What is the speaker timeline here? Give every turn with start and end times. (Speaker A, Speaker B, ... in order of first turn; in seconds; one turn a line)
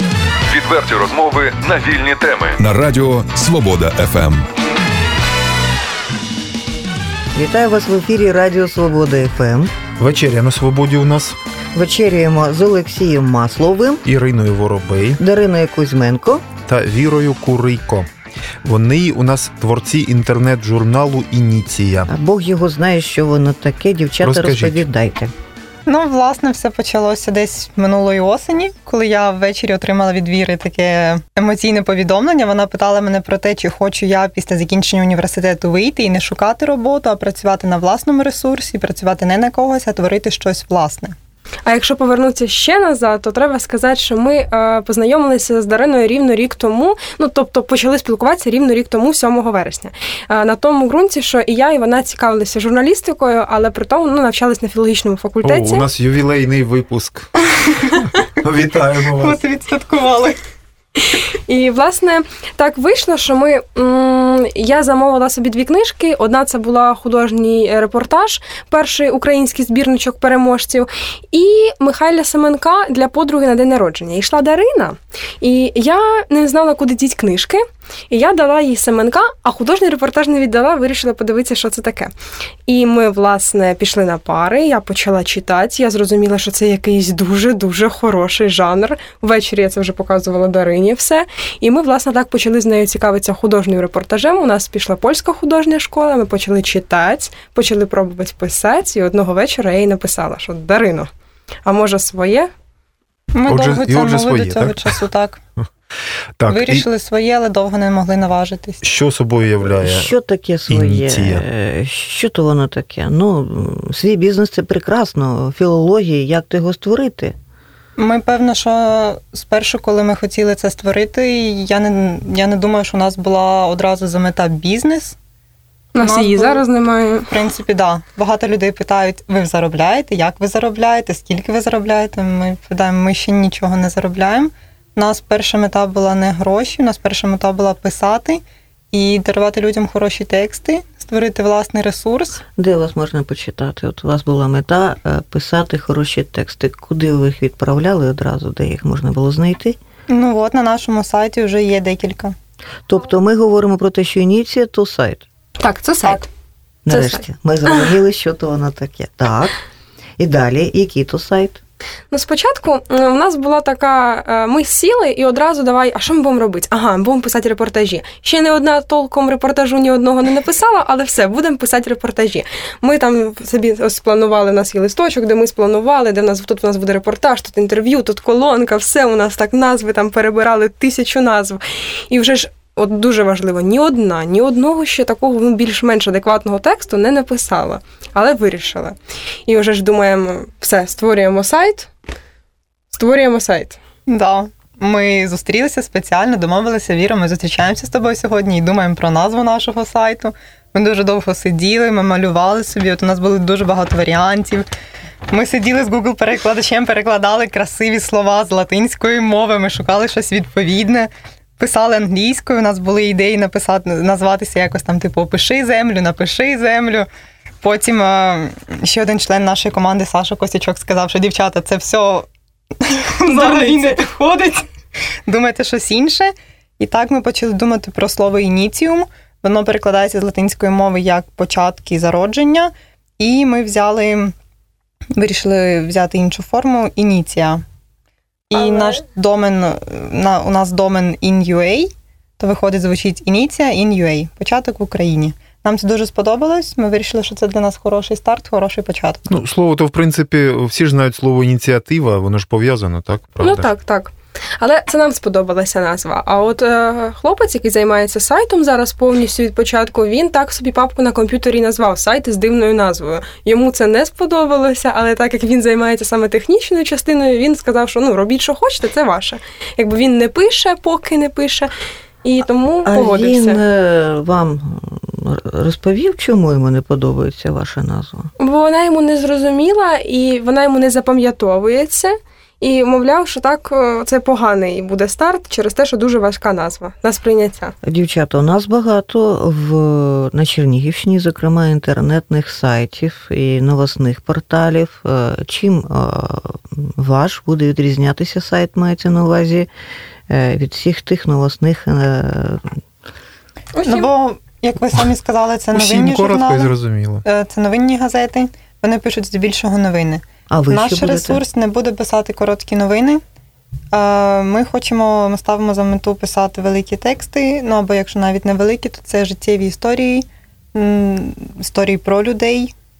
Speaker A: 0.5-4.4
Speaker B: 7.3-9.7
Speaker C: 10.0-11.4
Speaker B: 11.8-14.0
Speaker C: 14.1-15.2
Speaker B: 15.2-16.5
Speaker C: 16.7-18.1
Speaker C: 18.6-22.1
Speaker B: 22.1-25.3
Speaker C: 24.2-24.8
Speaker D: 25.9-41.2
Speaker E: 41.7-55.9
Speaker C: 55.4-59.4
Speaker D: 59.2-60.4
Speaker E: 61.1-82.1
Speaker E: 82.7-101.1
Speaker E: 101.7-102.5
Speaker D: 103.3-105.4
Speaker C: 103.5-105.0
Speaker C: 106.4-106.8
Speaker D: 106.5-108.8
Speaker C: 108.8-110.1
Speaker B: 109.8-117.3
Speaker C: 110.7-111.4
Speaker D: 118.0-125.2
Speaker E: 125.9-127.3
Speaker D: 126.0-126.6
Speaker D: 127.3-142.4
Speaker B: 142.5-149.8
Speaker D: 150.1-152.3
Speaker B: 152.9-155.2
Speaker E: 155.6-156.3
Speaker B: 156.8-159.5
Speaker E: 156.9-157.8
Speaker B: 160.2-161.6
Speaker E: 162.1-188.9
Speaker E: 189.5-191.9
Speaker E: 192.9-193.8
Speaker D: 194.1-204.7
Speaker D: 205.3-217.1
Speaker D: 217.6-222.3
Speaker D: 222.8-224.6
Speaker E: 223.2-224.0
Speaker D: 225.3-234.3
Speaker D: 235.2-237.6
Speaker D: 238.5-249.2
Speaker C: 249.3-253.7
Speaker E: 253.4-271.7
Speaker E: 272.2-273.6
Speaker B: 272.9-278.3
Speaker E: 278.4-287.8
Speaker B: 287.8-299.7
Speaker B: 300.3-302.8
Speaker E: 303.8-304.1
Speaker D: 303.8-306.7
Speaker C: 305.7-307.2
Speaker D: 307.2-313.2
Speaker B: 310.5-311.4
Speaker D: 313.9-322.7